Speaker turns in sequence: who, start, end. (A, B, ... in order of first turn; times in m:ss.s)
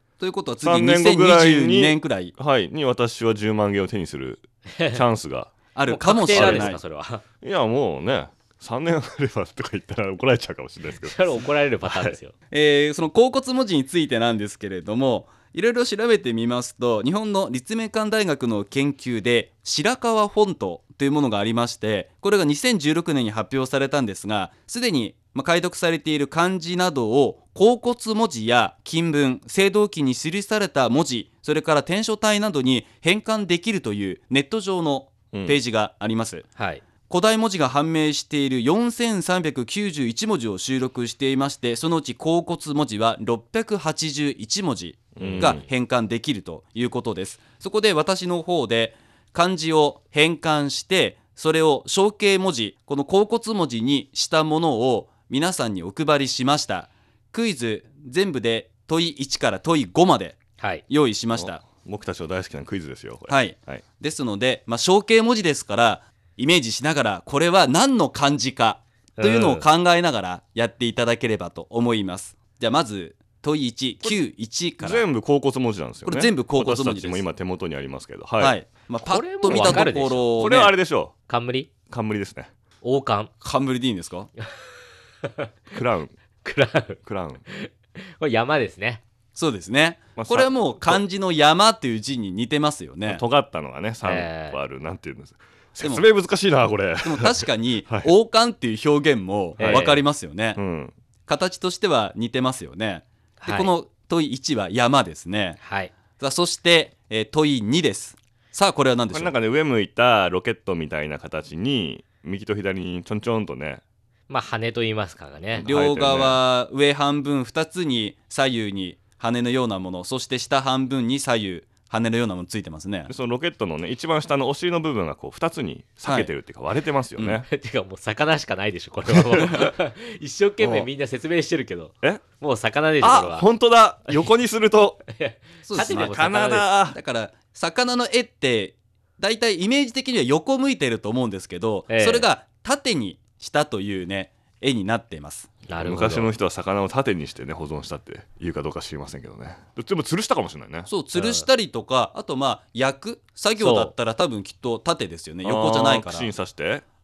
0:00.2-0:02.3 A
0:00.6-0:05.5 B
0:05.7-0:06.8 A
0:05.9-0:07.2 C
0:06.3-0:06.8 B
0:07.4-0:11.3 B
0:11.0-0:12.3 C
0:11.8-0:12.2 B
0:12.5-0:36.4 A
0:36.6-0:36.8 C
0:37.1-1:01.6 A
0:45.2-0:45.6 C
0:45.2-0:45.6 B
1:00.6-1:00.8 C
1:01.3-1:03.8 B
1:03.3-1:15.0 A
1:09.2-1:09.6 C
1:14.8-1:18.5 B
1:16.0-1:17.3 A
1:18.4-1:20.7 A
1:19.1-1:20.2 C
1:19.5-1:21.1 B
1:21.3-1:21.7 C
1:21.9-1:22.5 B
1:22.8-1:23.3 C
1:23.4-1:24.3 A
1:25.7-1:26.1 B
1:26.4-1:29.0 C
1:27.0-1:27.4 B
1:29.3-1:33.2 A
1:30.2-1:31.0 B
1:33.0-1:38.1 B
1:34.0-1:34.6 C
1:35.8-1:36.0 A
1:37.0-1:40.6 A
1:39.6-1:40.0 B
1:39.6-1:40.0 C
1:40.6-1:40.9 B
1:41.3-1:45.6 A
1:43.4-1:43.7 C
1:45.6-1:45.9 C
1:46.2-1:49.3 A
1:49.1-1:53.8 B
1:54.3-1:55.7 C
1:55.5-1:56.4 B
1:55.6-2:03.1 A
2:03.1-2:07.5 B
2:06.0-2:06.3 A
2:07.5-2:13.5 C
2:09.1-2:09.6 B
2:10.6-2:10.9 B
2:13.0-2:15.0 B
2:15.1-2:16.7 C
2:15.6-2:16.2 A
2:15.8-2:17.0 B
2:16.9-2:25.5 A
2:21.9-2:22.2 C
2:25.7-2:26.3 C
2:25.8-2:30.9 B
2:30.9-2:36.3 A
2:31.1-2:31.4 C
2:33.6-2:33.9 C
2:35.4-2:36.8 B